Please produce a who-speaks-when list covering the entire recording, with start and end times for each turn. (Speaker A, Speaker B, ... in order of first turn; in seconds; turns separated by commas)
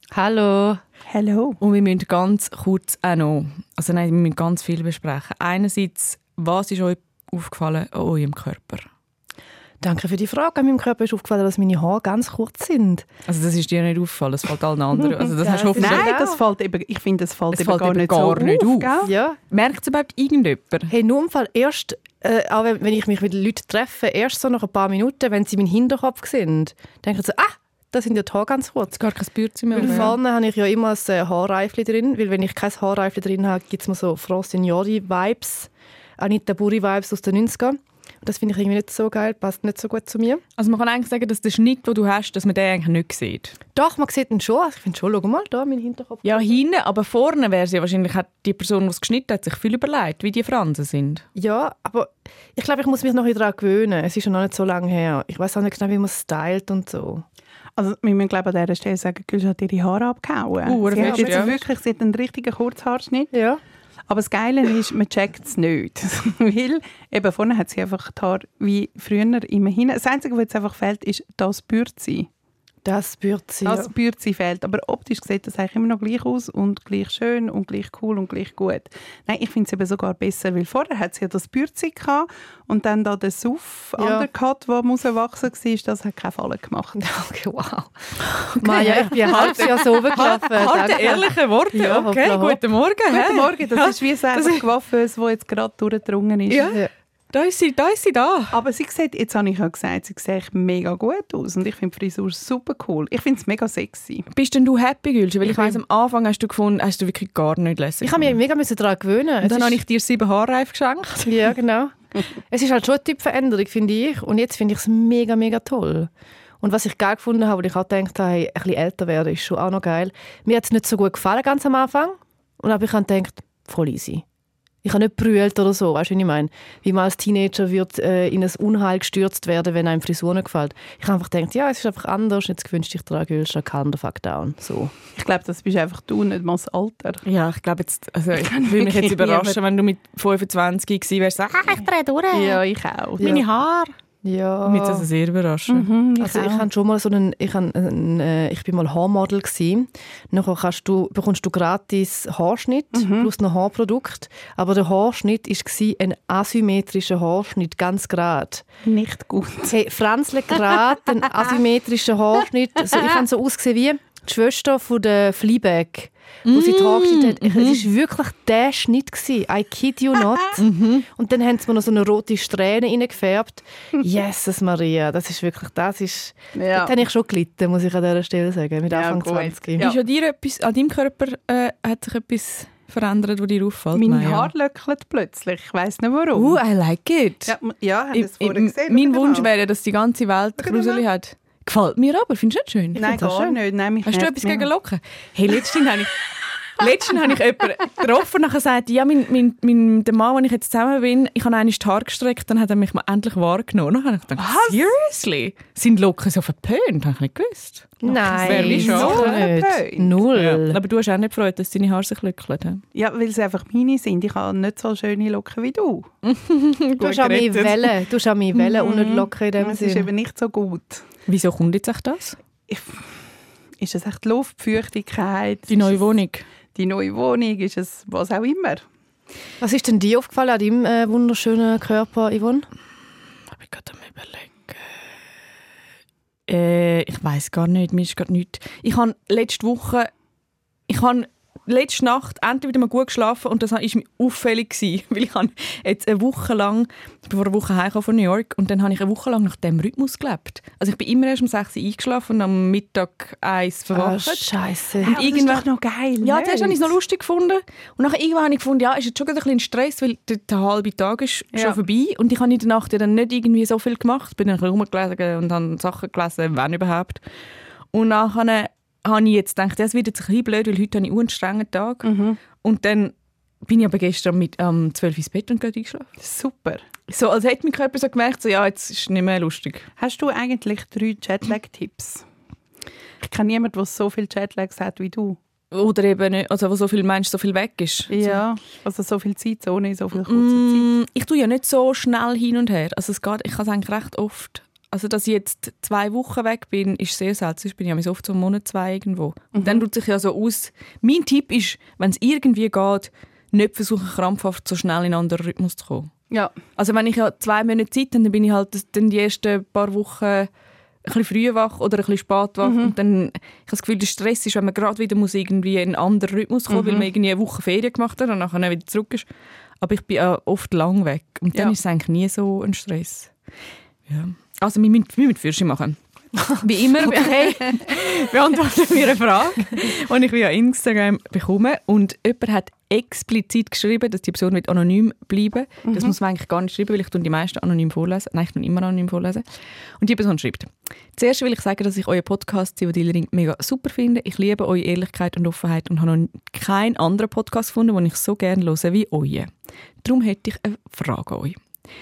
Speaker A: 0.1-0.8, Speaker B: 1.1-1.6, Speaker C: 1.6-8.9, Speaker A: 9.8-13.1, Speaker C: 13.3-16.1, Speaker B: 15.0-19.1, Speaker A: 15.4-16.4, Speaker C: 17.5-19.0, Speaker A: 19.0-19.4, Speaker C: 19.5-20.9, Speaker A: 20.9-29.0, Speaker C: 28.9-30.1, Speaker A: 29.7-40.4, Speaker B: 29.8-30.1, Speaker C: 40.6-43.6, Speaker A: 43.8-46.5, Speaker C: 46.2-51.2, Speaker A: 51.4-57.2, Speaker B: 57.8-63.3, Speaker C: 60.6-61.6, Speaker A: 60.9-61.6, Speaker A: 63.3-63.6, Speaker B: 64.1-72.3, Speaker A: 72.8-73.9, Speaker B: 73.7-87.0, Speaker A: 84.0-84.3, Speaker A: 87.0-92.6, Speaker C: 88.2-94.6, Speaker B: 88.8-89.6, Speaker B: 93.1-96.8, Speaker C: 96.5-98.6, Speaker B: 98.5-104.3, Speaker C: 104.3-108.4, Speaker A: 108.0-109.8, Speaker C: 109.4-111.5, Speaker A: 111.2-116.1, Speaker A: 116.6-124.2, Speaker A: 124.8-134.9, Speaker B: 135.2-137.2, Speaker C: 137.2-142.6, Speaker B: 138.5-139.6, Speaker B: 142.3-143.4, Speaker C: 143.2-144.0, Speaker A: 144.2-145.1, Speaker C: 144.6-145.9, Speaker B: 145.7-146.7, Speaker A: 146.2-158.6, Speaker B: 152.9-153.3, Speaker B: 158.8-159.8, Speaker A: 159.7-179.9, Speaker C: 166.5-167.9, Speaker C: 170.6-171.1, Speaker B: 176.6-176.9, Speaker B: 178.9-180.0, Speaker C: 179.8-184.5, Speaker B: 183.9-186.6, Speaker C: 186.3-187.6, Speaker B: 187.5-189.5, Speaker C: 188.1-193.2, Speaker B: 190.6-191.0, Speaker B: 193.0-194.7, Speaker A: 193.0-193.6, Speaker C: 194.1-209.4, Speaker B: 204.4-204.9, Speaker A: 208.0-210.8, Speaker B: 208.1-210.2, Speaker C: 210.3-212.8, Speaker B: 212.9-216.1, Speaker C: 216.2-217.9, Speaker A: 217.0-220.1, Speaker B: 218.8-221.0, Speaker C: 221.3-222.4, Speaker B: 222.7-223.1, Speaker B: 223.8-226.0, Speaker C: 225.7-226.5, Speaker B: 226.8-228.8, Speaker A: 229.6-232.7, Speaker C: 233.6-234.9, Speaker C: 236.5-240.1, Speaker C: 240.9-254.5, Speaker A: 253.9-255.2, Speaker B: 255.0-256.9, Speaker C: 255.1-255.7, Speaker C: 256.2-267.2, Speaker B: 261.5-261.8, Speaker C: 267.9-272.1, Speaker B: 272.0-272.4, Speaker C: 272.6-273.1, Speaker C: 273.6-276.1, Speaker B: 276.2-276.8, Speaker C: 277.1-279.9, Speaker B: 280.0-282.3, Speaker B: 283.2-285.4, Speaker C: 285.7-288.4, Speaker B: 288.1-290.9, Speaker C: 290.3-306.1, Speaker B: 299.6-299.8, Speaker C: 306.8-310.5, Speaker C: 311.1-319.3, Speaker B: 312.6-312.9, Speaker B: 316.7-317.1, Speaker C: 319.8-323.3, Speaker C: 324.1-326.0, Speaker C: 326.5-339.4, Speaker B: 335.9-336.1, Speaker C: 340.0-349.5, Speaker C: 350.0-351.6